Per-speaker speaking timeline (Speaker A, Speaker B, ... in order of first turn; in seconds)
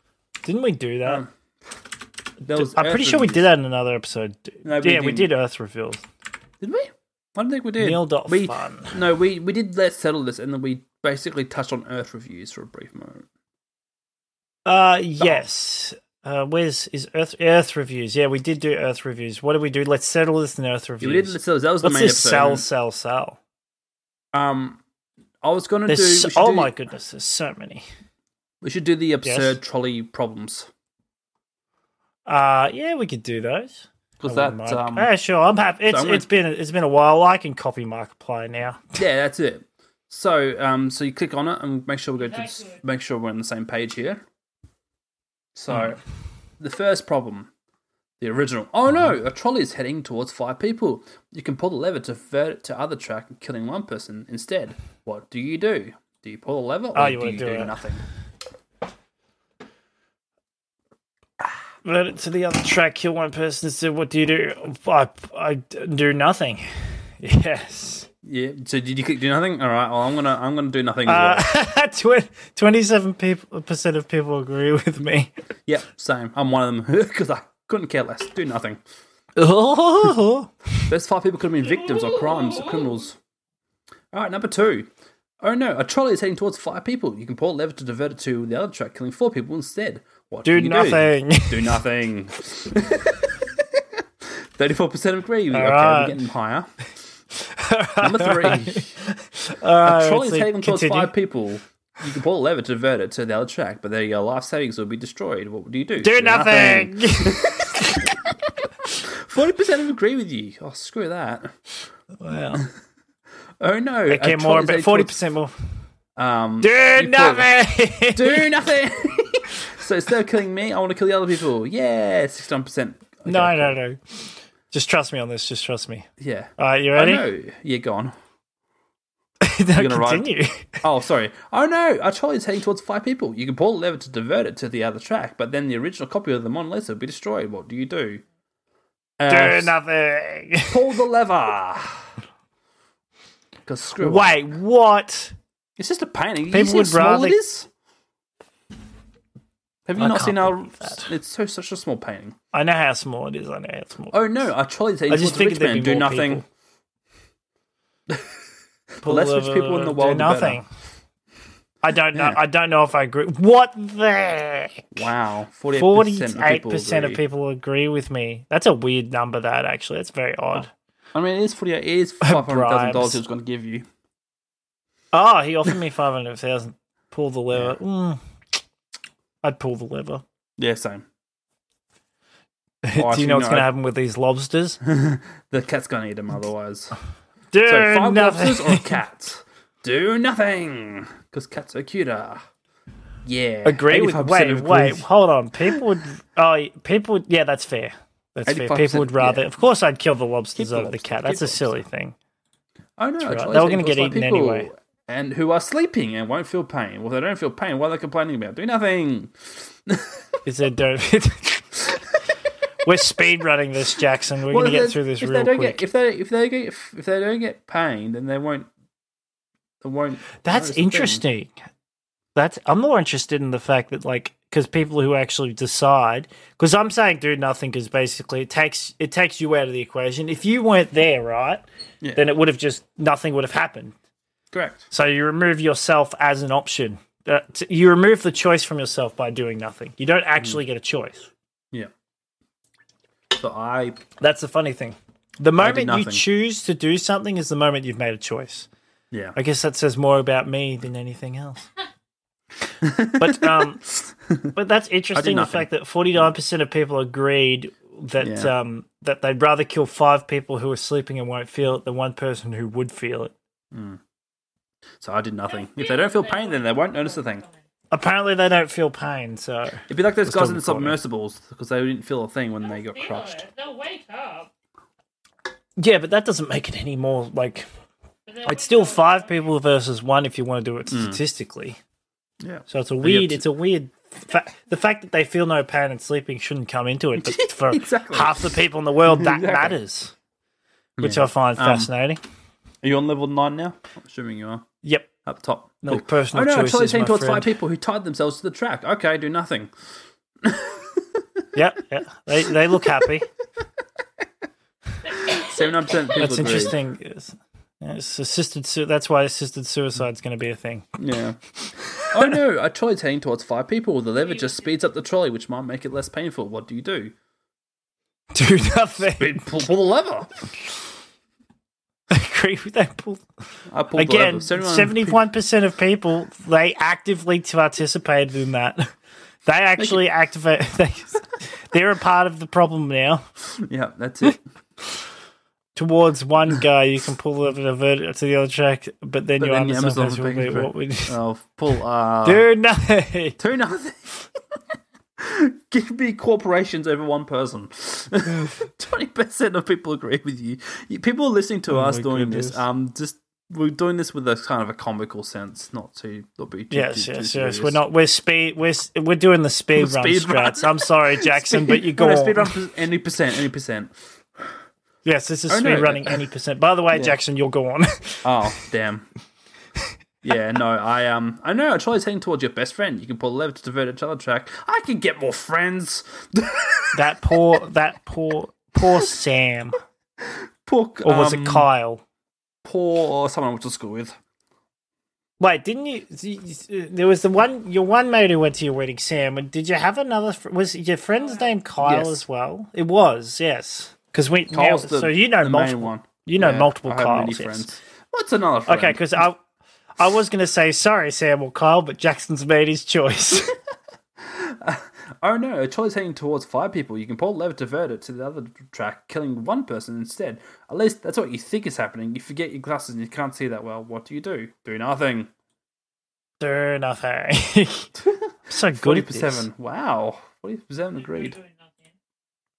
Speaker A: 0.4-1.2, 2.5-6.0, 7.8-9.0, 14.7-23.4, 25.9-27.9, 29.2-29.5, 32.3-38.8, 57.0-57.8, 61.8-66.7, 67.2-68.1, 71.1-75.3, 79.4-80.5, 90.5-91.8, 95.5-96.2, 97.4-101.1, 106.0-108.0, 112.2-112.7, 114.1-115.5, 116.6-118.5, 123.3-124.0, 124.7-126.1, 126.6-127.2, 129.4-130.8, 139.3-140.8, 144.0-145.3, 146.5-147.4, 150.0-151.1, 152.5-154.2, 155.1-156.4, 159.0-160.7, 161.8-165.0, 165.7-170.7, 172.2-173.2, 175.1-178.2, 179.4-180.2, 182.8-184.8, 187.5-188.9, 193.7-202.2, 203.2-204.7, 210.4-211.8, 212.8-215.8, 220.4-221.6, 222.3-231.7, 232.2-233.9, 234.9-241.3, 244.2-248.7, 249.4-251.7, 253.2-253.8, 254.6-263.3, 267.9-271.0, 275.8-277.7, 278.4-281.8, 282.7-290.1, 291.0-292.2, 294.8-295.1, 295.8-297.5, 301.6-303.3, 306.2-310.9, 318.3-319.5, 322.1-323.2, 323.9-328.9, 329.5-333.2, 335.8-341.2, 342.2-343.4, 351.7-352.6, 356.7-362.5, 365.1-368.3, 376.9-379.8, 381.0-382.0, 385.4-397.8, 398.7-399.4, 400.0-403.5, 416.4-417.9, 418.5-419.5
Speaker B: 1.0-1.3, 2.4-3.5, 4.7-5.3, 6.6-13.3, 21.0-22.6, 24.3-24.8, 25.4-26.7, 28.6-30.7, 34.2-35.1, 35.9-36.3, 39.0-44.2, 45.5-46.0, 46.6-47.5, 48.2-58.0, 68.2-71.5, 75.7-78.8, 80.9-83.2, 84.1-93.5, 94.6-96.7, 98.0-99.0, 99.8-107.8, 109.0-111.5, 113.6-115.2, 116.2-117.5, 118.1-123.8, 126.2-128.1, 129.8-130.3, 130.8-138.2, 139.2-139.8, 140.7-142.1, 143.7-144.4, 145.8-147.7, 149.9-152.4, 154.1-156.4, 159.0-160.6, 162.1-162.4, 164.9-167.2, 170.6-173.9, 177.5-177.8, 180.6-181.1, 182.9-183.7, 184.8-186.9, 187.7-192.4, 193.2-195.1, 198.5-199.5, 200.6-201.8, 203.0-209.3, 209.9-210.2, 214.5-218.7, 219.8-221.2, 232.0-232.3, 234.5-234.9, 243.3-244.0, 245.6-246.2, 249.1-249.4, 252.8-254.5, 255.1-255.7, 258.2-258.5, 263.7-264.0, 265.0-267.4, 269.9-273.4, 280.9-281.2, 282.4-283.4, 287.2-289.8, 291.0-291.9, 292.8-294.7, 295.2-299.7, 300.4-301.4, 305.4-306.8, 311.0-311.4, 312.1-317.1, 319.2-320.3, 323.7-325.2, 329.8-330.0, 333.6-334.4, 339.4-342.5, 343.4-344.1, 345.2-357.8, 359.8-363.9, 365.5-366.2, 366.9-367.2, 368.2-369.1, 370.2-377.0, 380.2-381.7, 382.6-384.2, 391.8-392.2, 394.5-399.2, 404.2-415.3, 418.5-421.4
Speaker C: 42.2-42.8, 81.8-82.9, 265.5-267.6, 272.6-274.5, 278.3-279.5, 314.2-314.7, 391.1-391.6, 421.0-421.9